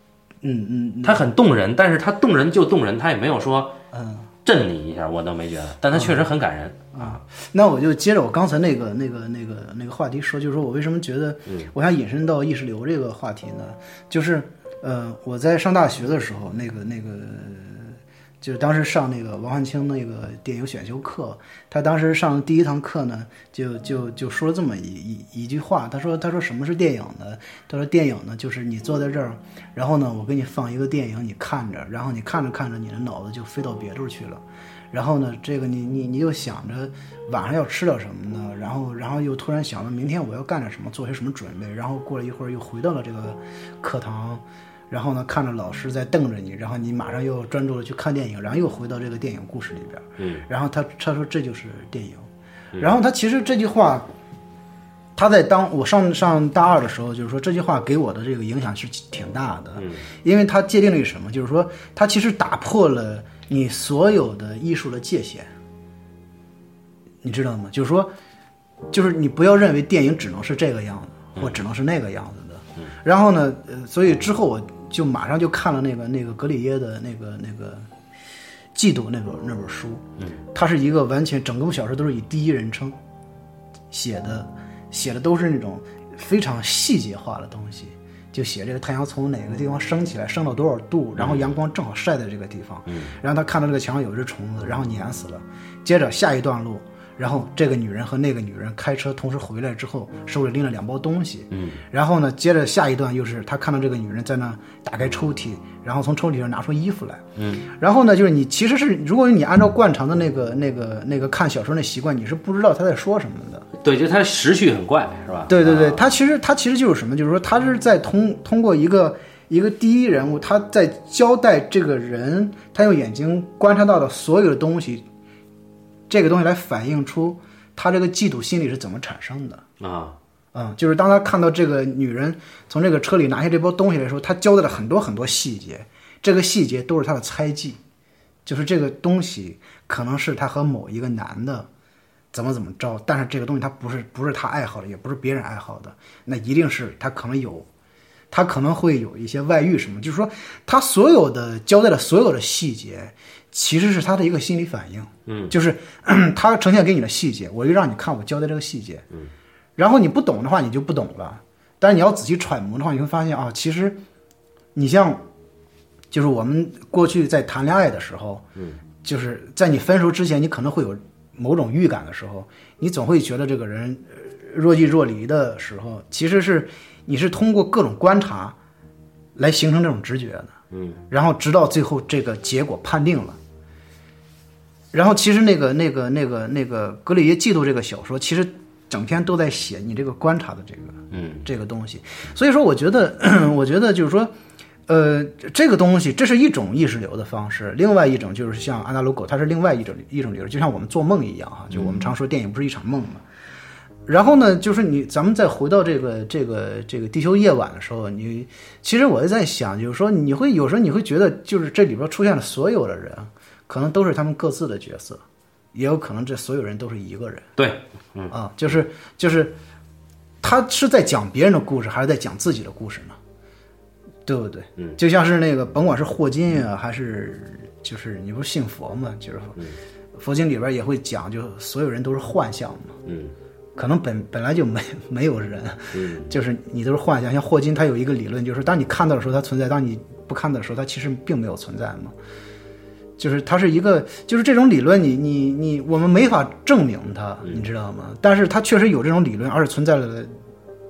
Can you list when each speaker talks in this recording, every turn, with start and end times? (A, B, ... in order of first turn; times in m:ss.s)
0:00.4-0:01.2 A
0:01.0-0:03.8 B
0:03.9-0:04.3 A
0:04.4-0:07.2 B
0:05.9-0:06.3 A
0:06.9-0:54.1 A
0:50.2-0:50.4 B
0:55.2-1:05.5 A
0:59.8-1:00.0 B
1:07.2-1:08.1 A
1:08.9-1:17.9 A
1:11.4-1:11.6 B
1:18.8-1:20.0 A
1:20.5-1:23.0 A
1:23.9-1:53.7 A
1:31.2-1:31.5 B
1:32.9-1:33.2 B
1:41.5-1:41.8 B
1:47.4-1:47.7 B
1:53.8-1:56.1 B
1:55.5-2:05.0 A
2:06.1-2:09.6 A
2:09.8-2:10.2 B
2:10.5-2:17.8 A
2:18.5-2:21.7 A
2:22.3-2:27.7 A
2:28.3-2:39.0 A
2:35.3-2:35.5 B
2:39.8-2:44.0 A
2:44.8-2:45.2 A
2:46.1-2:48.4 A
2:49.0-2:58.6 A
2:59.4-3:00.5 A
3:00.7-3:01.0 B
3:01.1-3:03.4 A
3:04.9-3:14.3 A
3:11.1-3:11.5 B
3:14.9-3:23.2 A
3:21.7-3:22.1 B
3:24.1-3:35.2 A
3:35.7-3:37.5 A
3:37.6-3:38.3 B
3:38.3-3:39.5 A
3:40.4-3:43.2 A
3:44.3-3:49.6 A
3:50.2-3:53.0 A
3:53.1-3:53.3 B
3:53.8-4:02.1 A
3:55.9-3:56.3 B
4:03.2-4:10.3 A